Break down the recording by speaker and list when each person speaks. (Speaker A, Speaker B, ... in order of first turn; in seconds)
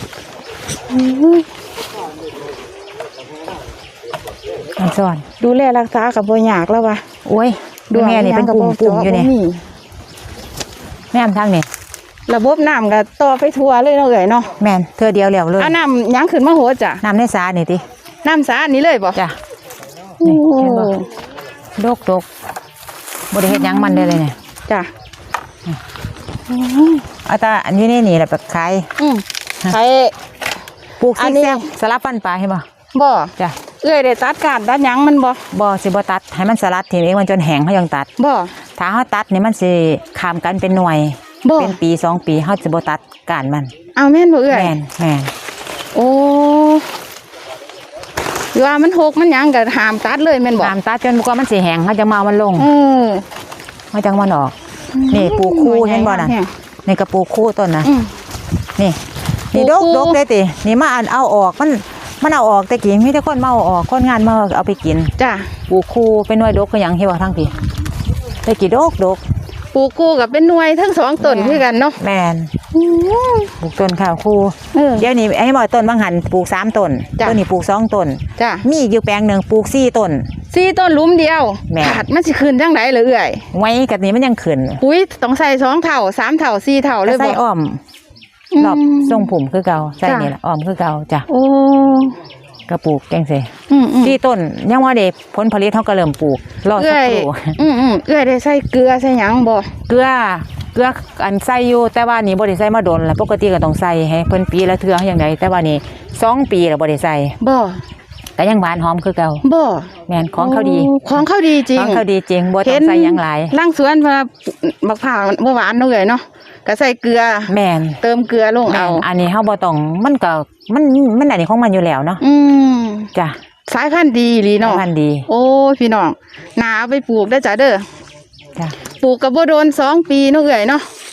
Speaker A: 0.9-1.5, 5.4-7.0, 7.9-9.6, 12.3-14.5, 15.6-17.0, 18.2-19.2, 20.2-21.1, 23.4-24.9, 26.5-27.1, 29.0-30.1, 31.2-31.7, 32.9-35.4, 38.2-38.5, 41.4-41.8, 44.0-44.7, 45.9-46.9, 48.5-50.7, 52.5-53.2, 54.9-56.5, 57.8-58.1, 59.5-60.2, 65.2-65.5, 69.7-72.0, 72.7-73.5, 74.7-75.1, 78.4-78.7, 80.5-83.5, 84.8-87.4, 88.5-89.3, 90.0-90.3, 91.3-92.2, 93.7-94.2, 96.8-99.7, 107.4-107.8, 109.4-112.0, 112.6-119.0, 122.2-123.1, 123.7-127.9, 129.0-130.9
Speaker B: 4.8-5.2, 7.2-9.3, 11.1-11.7, 14.6-15.8, 17.0-17.8, 20.2-20.9, 21.8-22.3, 23.3-24.4, 27.2-28.9, 31.0-32.6, 35.5-38.1, 38.8-43.7, 44.5-45.3, 50.6-52.7, 53.9-54.5, 55.1-56.3, 56.9-57.9, 58.8-65.1, 65.7-67.5, 68.4-69.2, 71.2-72.5, 73.6-80.3, 81.7-82.0, 83.5-84.8, 87.0-87.8, 88.6-91.3, 92.7-93.5, 94.0-97.6, 99.9-107.3, 108.4-109.4, 110.1-113.5, 117.5-118.0, 118.7-122.2, 124.6-125.3